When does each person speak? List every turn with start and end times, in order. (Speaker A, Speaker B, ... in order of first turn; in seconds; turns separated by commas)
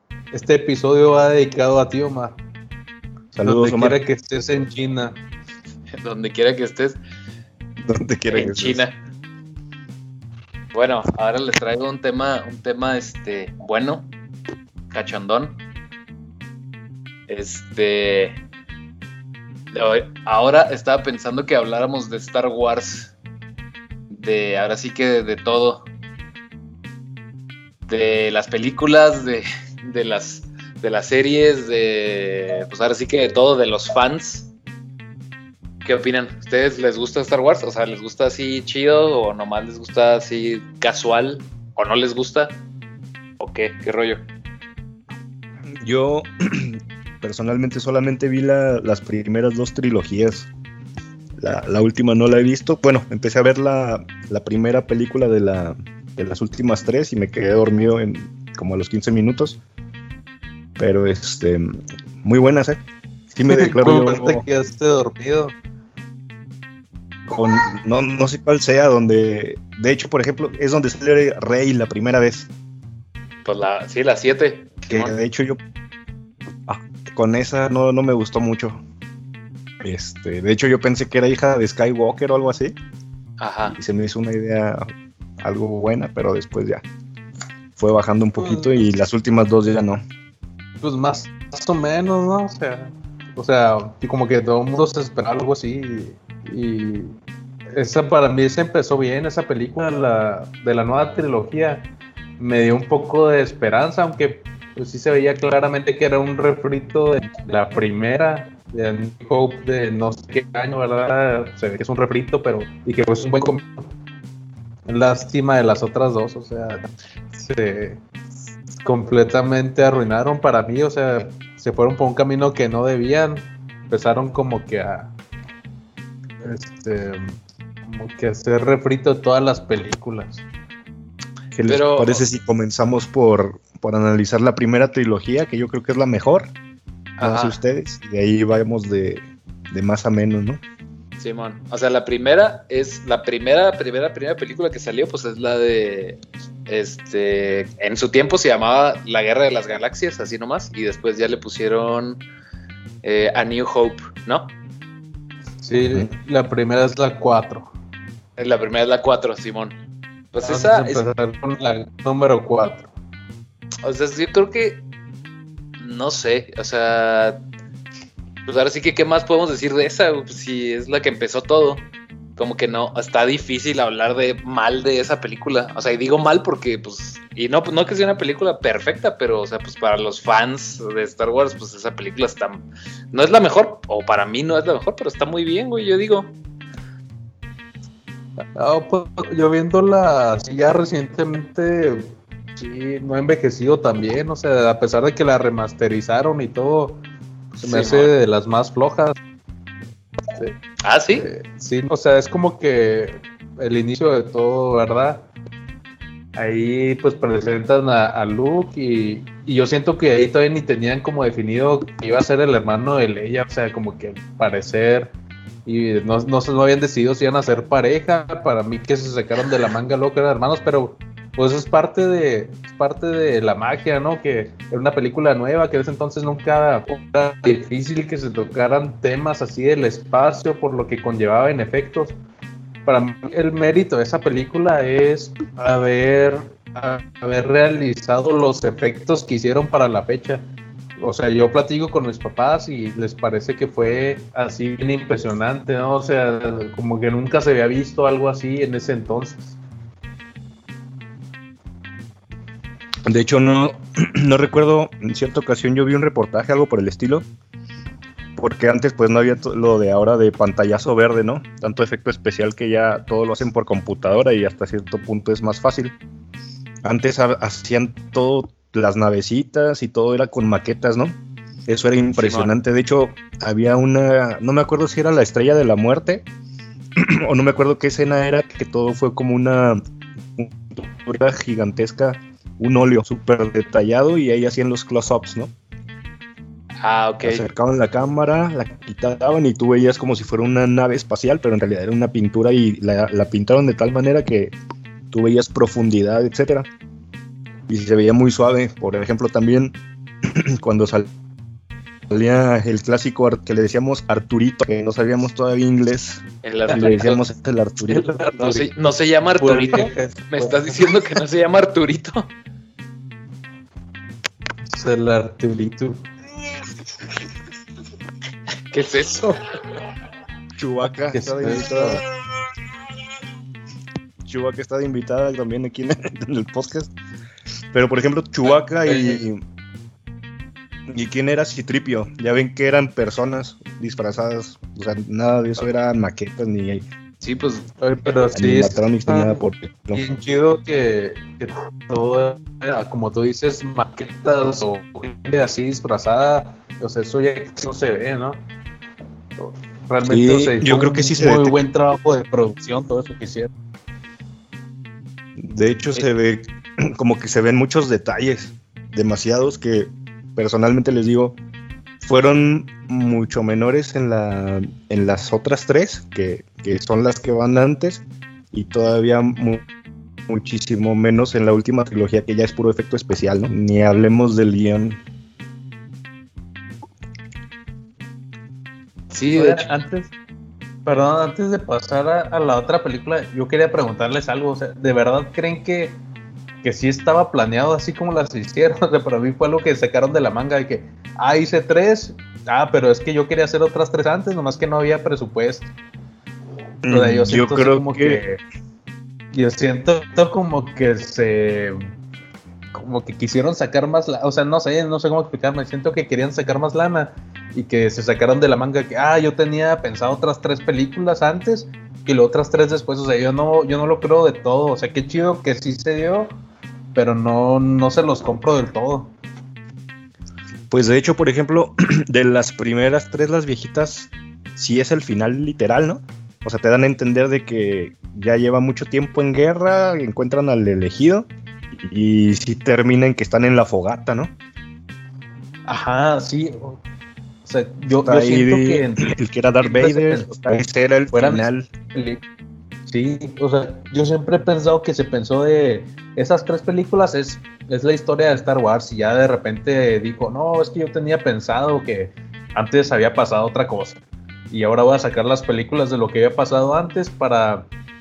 Speaker A: 0.3-2.4, Speaker A: 3.3-5.2, Speaker B: 3.4-4.0, Speaker C: 6.0-7.0, Speaker B: 7.8-8.8, Speaker C: 8.3-9.0, Speaker C: 10.7-14.1, Speaker C: 14.9-15.6, Speaker C: 17.3-18.4, Speaker C: 19.7-23.1, Speaker C: 24.1-25.9, Speaker C: 27.9-34.5, Speaker C: 35.8-42.6, Speaker C: 43.4-44.2, Speaker B: 45.8-50.5, Speaker B: 51.4-59.6, Speaker B: 60.8-64.4, Speaker A: 63.5-65.5, Speaker B: 67.3-72.5, Speaker C: 73.5-75.1, Speaker B: 74.9-75.6, Speaker B: 76.7-78.8, Speaker B: 79.8-82.8, Speaker C: 83.4-83.8, Speaker B: 83.7-86.8, Speaker B: 87.8-90.0, Speaker A: 88.4-88.7, Speaker A: 90.8-97.2, Speaker A: 97.7-101.9, Speaker A: 102.4-113.9, Speaker A: 114.9-118.0, Speaker A: 118.8-125.1, Speaker A: 126.4-130.4, Speaker B: 131.6-136.5, Speaker C: 131.7-132.3, Speaker C: 137.2-137.6, Speaker B: 137.2-140.6, Speaker C: 141.2-152.2, Speaker C: 153.0-154.5, Speaker A: 155.6-157.7, Speaker C: 158.4-159.8, Speaker C: 160.3-161.1, Speaker A: 160.4-162.9, Speaker C: 163.8-164.8, Speaker C: 165.8-167.4, Speaker C: 168.5-186.3, Speaker A: 188.4-199.2, Speaker C: 197.6-198.1, Speaker C: 200.8-201.3, Speaker A: 201.2-205.3, Speaker A: 206.4-215.2, Speaker A: 215.7-232.2, Speaker A: 232.8-240.4, Speaker A: 241.0-249.6, Speaker B: 253.1-257.3, Speaker B: 258.4-265.9, Speaker B: 266.8-271.2, Speaker B: 271.7-276.3, Speaker C: 272.1-272.5, Speaker B: 277.0-279.8, Speaker B: 280.4-285.5, Speaker C: 286.8-287.4, Speaker B: 287.2-294.6, Speaker B: 295.1-296.7, Speaker B: 297.7-301.1, Speaker B: 302.1-308.2, Speaker C: 306.4-307.2, Speaker A: 307.9-308.9, Speaker C: 308.4-312.3, Speaker A: 309.4-310.9, Speaker A: 314.7-316.0, Speaker C: 318.7-319.4, Speaker B: 320.6-322.0, Speaker A: 321.1-322.0, Speaker B: 324.2-326.9, Speaker B: 327.7-329.4, Speaker A: 328.8-329.2, Speaker B: 330.9-336.9, Speaker C: 337.2-337.7, Speaker A: 337.8-339.4, Speaker B: 338.3-340.0, Speaker A: 339.9-348.4, Speaker A: 349.4-353.5, Speaker B: 350.0-351.6, Speaker B: 355.4-361.4, Speaker B: 362.0-369.6, Speaker B: 370.3-375.0, Speaker C: 379.1-379.7, Speaker A: 379.4-380.1, Speaker A: 380.9-386.0, Speaker A: 386.6-395.7, Speaker B: 396.8-398.3, Speaker A: 396.9-398.4, Speaker A: 399.3-401.9, Speaker A: 402.7-416.3, Speaker A: 416.9-419.1, Speaker B: 420.7-434.3, Speaker A: 435.7-436.8, Speaker A: 437.4-442.2, Speaker B: 438.0-441.7, Speaker A: 442.9-454.0, Speaker A: 454.5-457.7